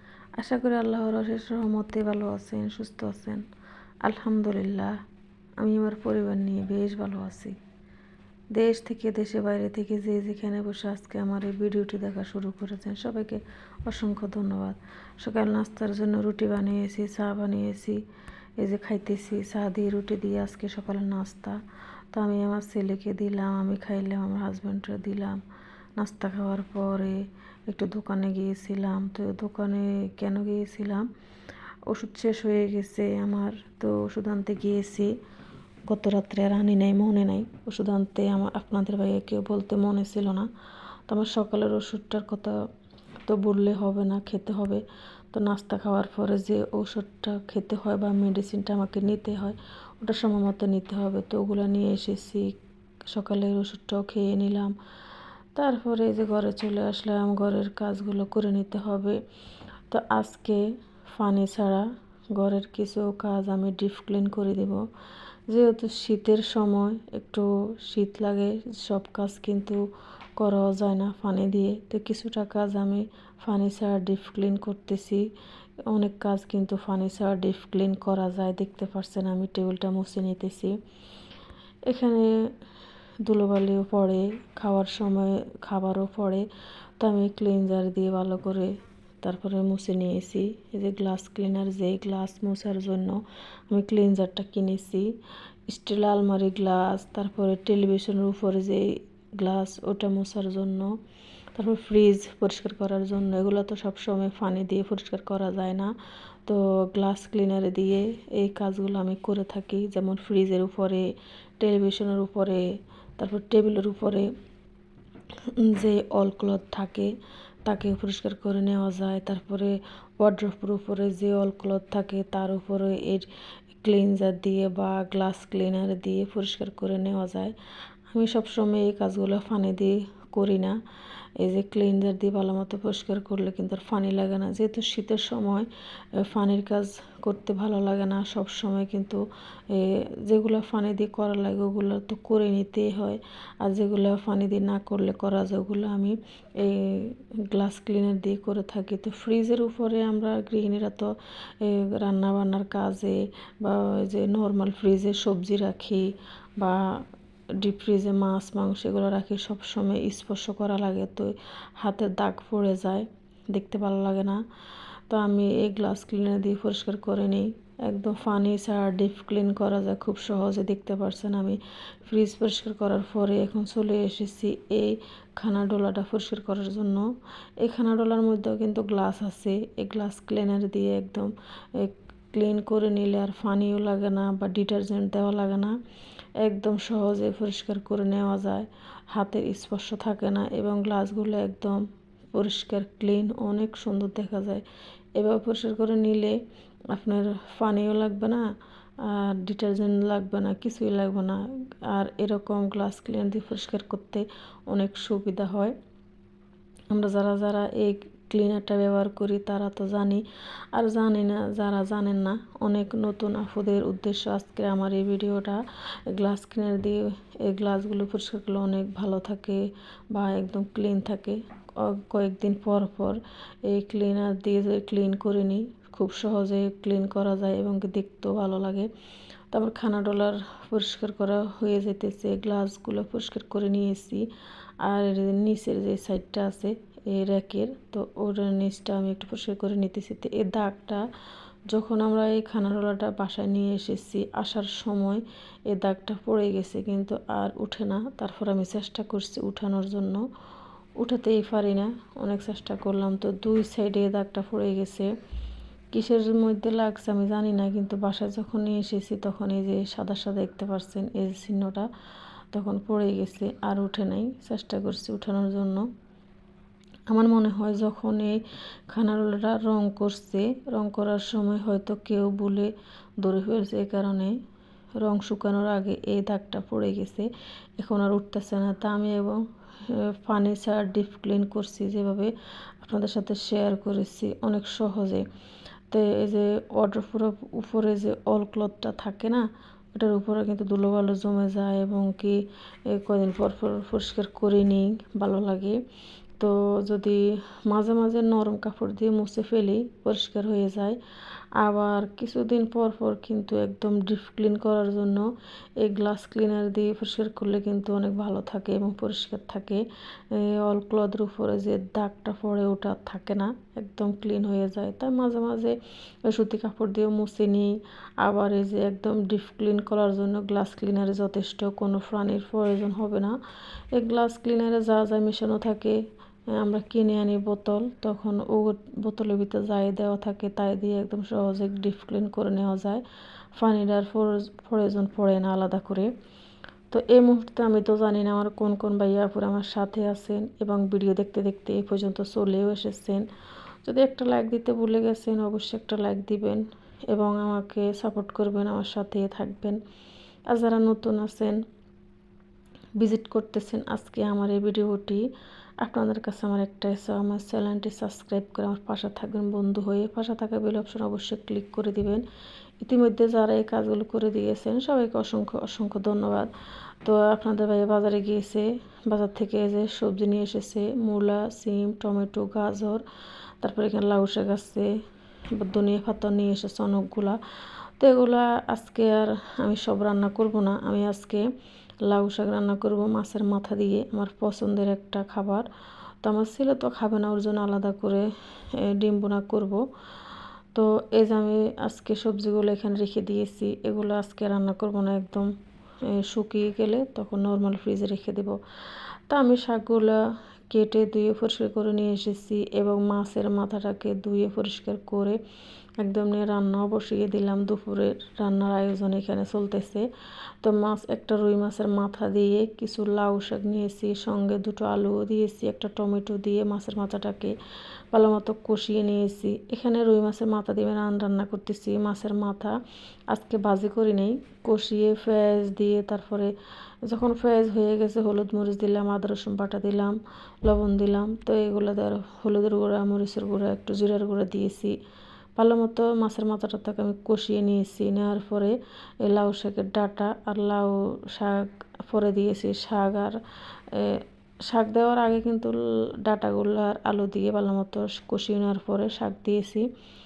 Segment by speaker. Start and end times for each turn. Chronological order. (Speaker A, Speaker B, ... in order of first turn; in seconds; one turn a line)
Speaker A: 0.4-3.5
Speaker A: 4.0-5.0
Speaker A: 5.6-7.6
Speaker A: 8.5-18.0
Speaker A: 18.6-21.6
Speaker A: 22.1-25.4
Speaker A: 26.0-31.1
Speaker A: 31.9-35.1
Speaker A: 35.9-40.5
Speaker A: 41.1-42.6
Speaker A: 43.2-52.5
Speaker A: 53.1-54.8
Speaker A: 55.5-59.2
Speaker A: 59.9-64.8
Speaker A: 65.5-69.8
Speaker A: 70.4-75.3
Speaker A: 75.9-80.8
Speaker A: 81.8-82.5
Speaker A: 83.2-86.5
Speaker A: 87.0-95.1
Speaker A: 95.7-101.0
Speaker A: 101.5-105.9
Speaker A: 106.5-114.3
Speaker A: 115.4-117.1
Speaker A: 117.6-123.3
Speaker A: 123.8-127.5
Speaker A: 128.1-130.8
Speaker A: 131.4-157.0
Speaker A: 157.6-164.4
Speaker A: 165.1-185.8
Speaker A: 186.4-194.6
Speaker A: 195.2-198.4
Speaker A: 199.0-205.8
Speaker A: 206.9-228.9
Speaker A: 229.5-234.3
Speaker A: 234.8-241.0
Speaker A: 241.7-250.2
Speaker A: 251.0-255.1
Speaker A: 255.9-261.9
Speaker A: 262.5-265.9
Speaker A: 267.1-274.4
Speaker A: 275.0-285.3
Speaker A: 285.9-295.8
Speaker A: 296.4-301.0
Speaker A: 301.6-323.4
Speaker A: 323.9-326.0
Speaker A: 326.5-333.0
Speaker A: 333.5-336.1
Speaker A: 336.9-343.3
Speaker A: 343.8-349.8
Speaker A: 350.5-351.6
Speaker A: 352.9-355.3
Speaker A: 355.8-362.2
Speaker A: 362.8-366.5
Speaker A: 367.0-373.0
Speaker A: 373.6-374.9
Speaker A: 375.5-377.4
Speaker A: 378.0-381.5
Speaker A: 382.0-385.7
Speaker A: 386.2-389.8
Speaker A: 390.7-395.5
Speaker A: 396.1-398.6
Speaker A: 399.3-405.4
Speaker A: 406.0-410.1
Speaker A: 410.6-417.5
Speaker A: 418.1-422.7
Speaker A: 423.3-426.5
Speaker A: 427.0-435.0
Speaker A: 435.6-449.9